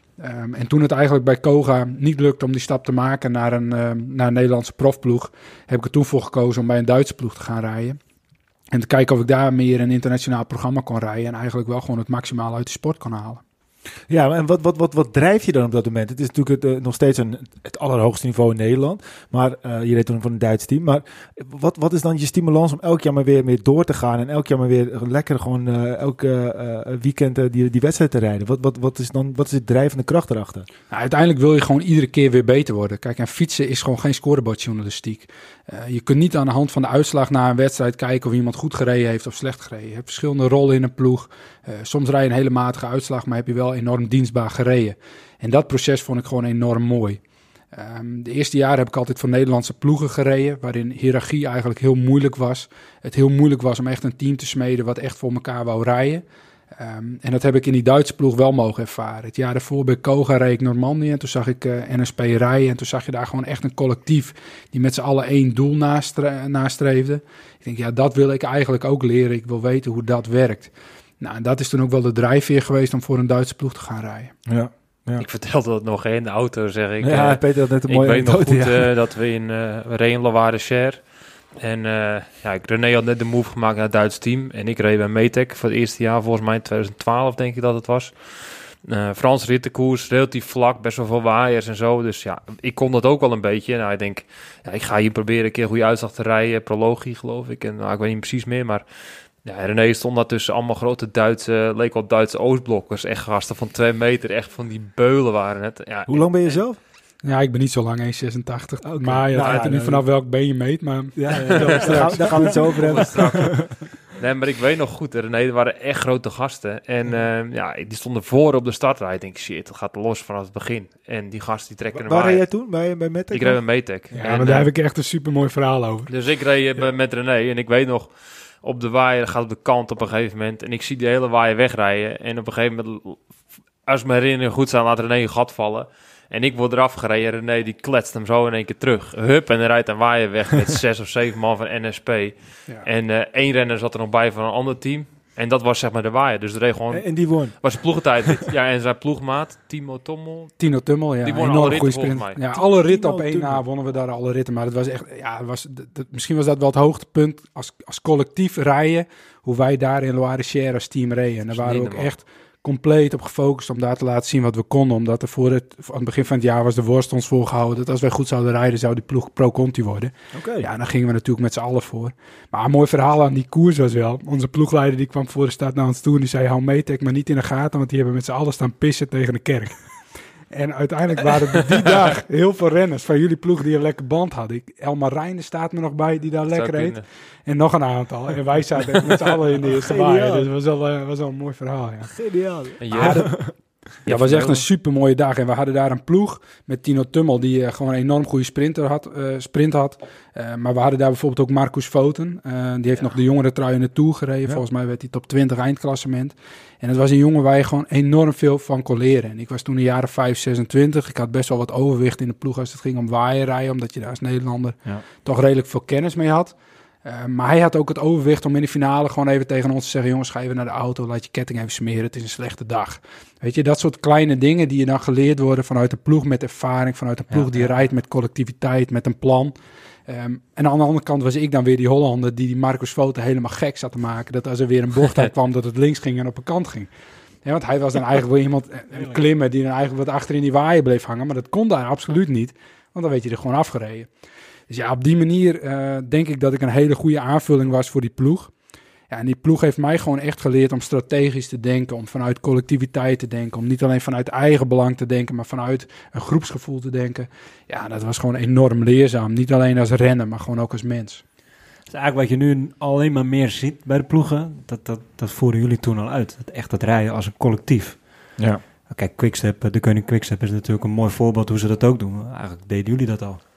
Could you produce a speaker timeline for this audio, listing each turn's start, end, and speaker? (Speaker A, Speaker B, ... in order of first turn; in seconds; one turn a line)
Speaker A: 0.2-8.0
Speaker A: 8.7-13.4
Speaker B: 14.1-30.7
Speaker A: 30.9-47.2
Speaker A: 47.7-74.3
Speaker B: 74.5-75.2
Speaker C: 75.2-106.7
Speaker B: 77.0-78.9
Speaker B: 106.1-106.8
Speaker A: 107.2-113.4
Speaker B: 108.8-110.0
Speaker C: 109.4-109.7
Speaker B: 111.2-113.7
Speaker C: 111.5-122.7
Speaker B: 121.9-123.6
Speaker C: 123.3-124.7
Speaker A: 124.2-126.1
Speaker C: 126.1-150.5
Speaker B: 146.9-147.9
Speaker A: 150.6-179.8
Speaker C: 151.2-152.4
Speaker B: 152.5-153.6
Speaker C: 161.5-162.1
Speaker B: 170.3-170.7
Speaker A: 180.5-192.1
Speaker C: 186.5-187.0
Speaker B: 189.7-190.5
Speaker B: 192.1-193.5
Speaker C: 192.8-194.6
Speaker A: 192.9-193.4
Speaker A: 194.0-229.5
Speaker D: 227.3-227.7
Speaker A: 230.1-236.9
Speaker A: 237.4-244.1
Speaker D: 238.9-239.2
Speaker A: 244.7-248.5
Speaker A: 249.1-261.2
Speaker D: 261.9-273.4